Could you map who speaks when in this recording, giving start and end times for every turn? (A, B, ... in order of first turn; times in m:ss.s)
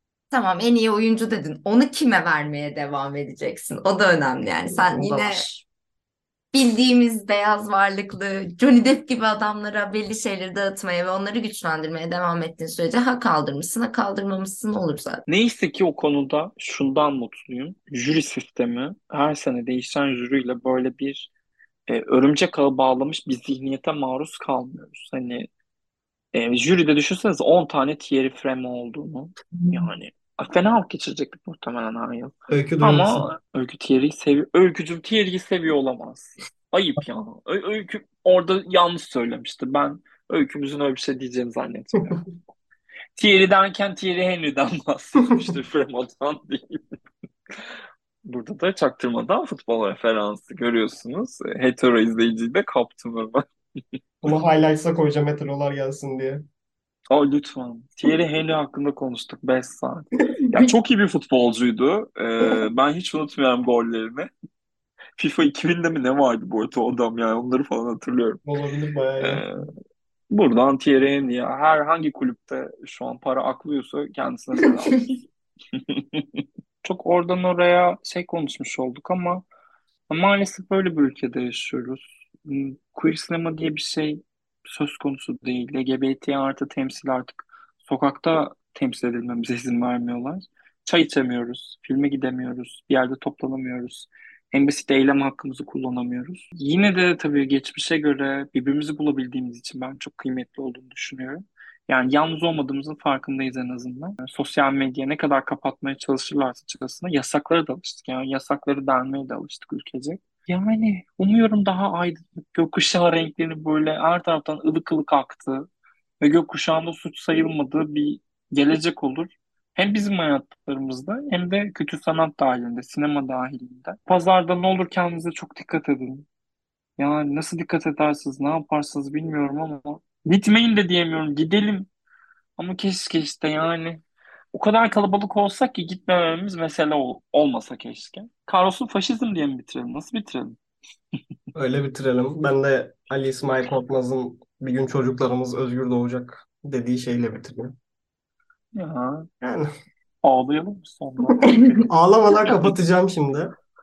0:00.3-0:05.6 A
0:04.7-0:05.5 B
0:06.5-0:15.2 A
0:15.3-0:21.3 C
0:21.9-0:25.5 C
0:26.3-0:42.3 C
0:29.6-0:29.9 B
0:32.5-0:33.3 B
0:43.2-0:46.8 C
0:48.2-0:53.4 C
0:54.2-0:56.4 B
0:57.1-1:04.3 C
1:05.2-1:08.4 C
1:08.4-1:09.4 B
1:09.2-1:09.7 C
1:10.3-1:15.2 C
1:15.7-1:19.4 C
1:20.1-1:55.7 C
1:56.2-2:06.3 C
2:07.0-2:11.9 C
2:12.6-2:20.6 C
2:21.5-2:27.7 B
2:28.7-2:29.3 C
2:29.4-2:29.7 B
2:30.2-2:31.9 C
2:31.9-2:33.5 B